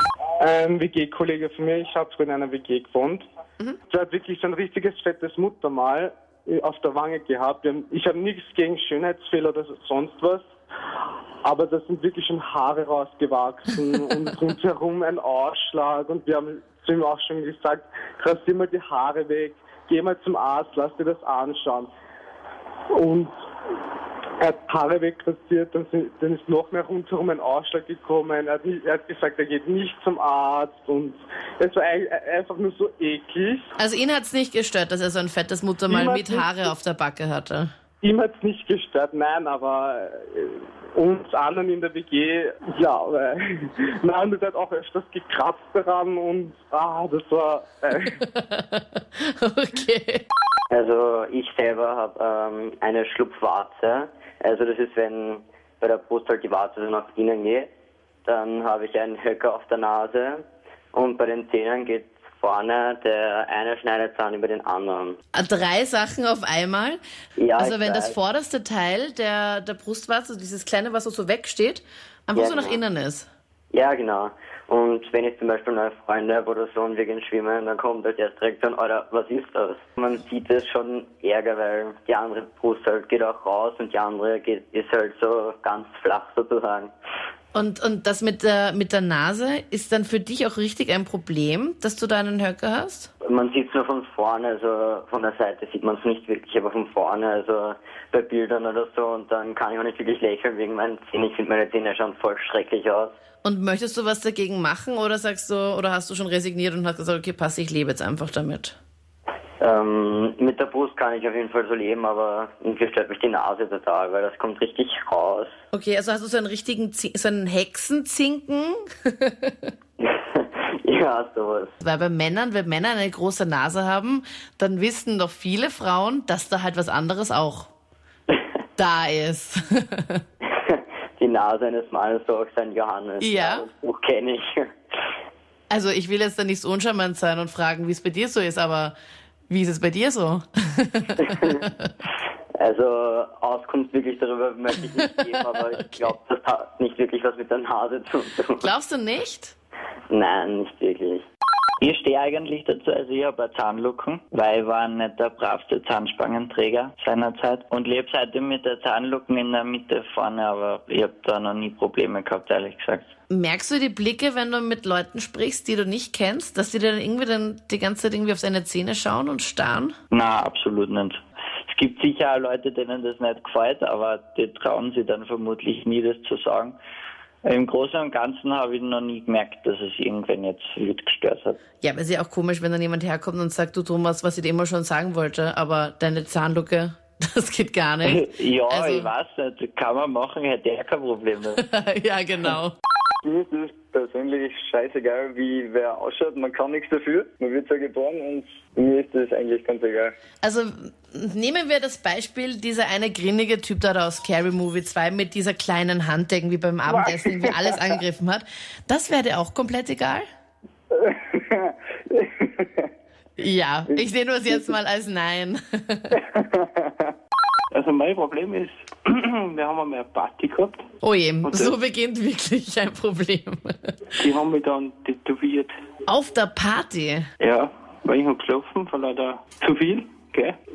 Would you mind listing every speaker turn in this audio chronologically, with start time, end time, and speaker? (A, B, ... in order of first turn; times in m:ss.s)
0:00.4-0:03.3 A
0:03.9-0:10.4 A
0:11.4-0:21.9 A
0:22.9-0:23.3 A
0:24.4-0:33.7 A
0:33.8-0:37.7 B
0:35.9-0:36.7 A
0:38.0-0:48.2 A
0:48.2-0:50.2 B
0:50.7-0:57.7 C
0:58.2-1:00.4 C
1:00.9-1:05.2 C
1:05.4-1:07.0 B
1:07.4-1:08.1 C
1:07.6-1:13.3 B
1:12.4-1:12.8 C
1:13.7-1:26.9 C
1:27.5-1:33.1 B
1:33.2-1:43.1 C
1:43.4-1:48.8 B
1:49.6-1:55.5 C
1:55.7-1:59.5 B
2:00.0-2:01.7 C
2:01.8-2:07.7 B
2:08.8-2:10.2 B
2:10.5-2:14.7 C
2:13.2-2:13.6 B
2:15.7-2:19.0 B
2:19.5-2:21.9 B
2:21.2-2:21.5 C
2:22.6-2:28.6 C
2:25.8-2:26.1 B
2:28.6-2:29.5 B
2:30.1-2:31.2 C
2:31.8-2:43.1 D
2:43.3-2:50.0 B
2:50.1-2:56.8 D
2:57.4-3:01.6 D
3:01.8-3:09.1 B
3:08.0-3:11.6 D
3:11.6-3:12.7 B
3:13.2-3:20.1 E
3:20.4-3:30.3 B
3:31.1-3:31.6 E
3:32.2-3:32.6 E
3:33.4-3:36.2 B
3:37.7-3:40.8 F
3:41.0-3:43.9 B
3:41.4-3:41.7 F
3:44.2-3:45.7 F
3:46.1-3:47.2 B
3:47.4-3:50.6 F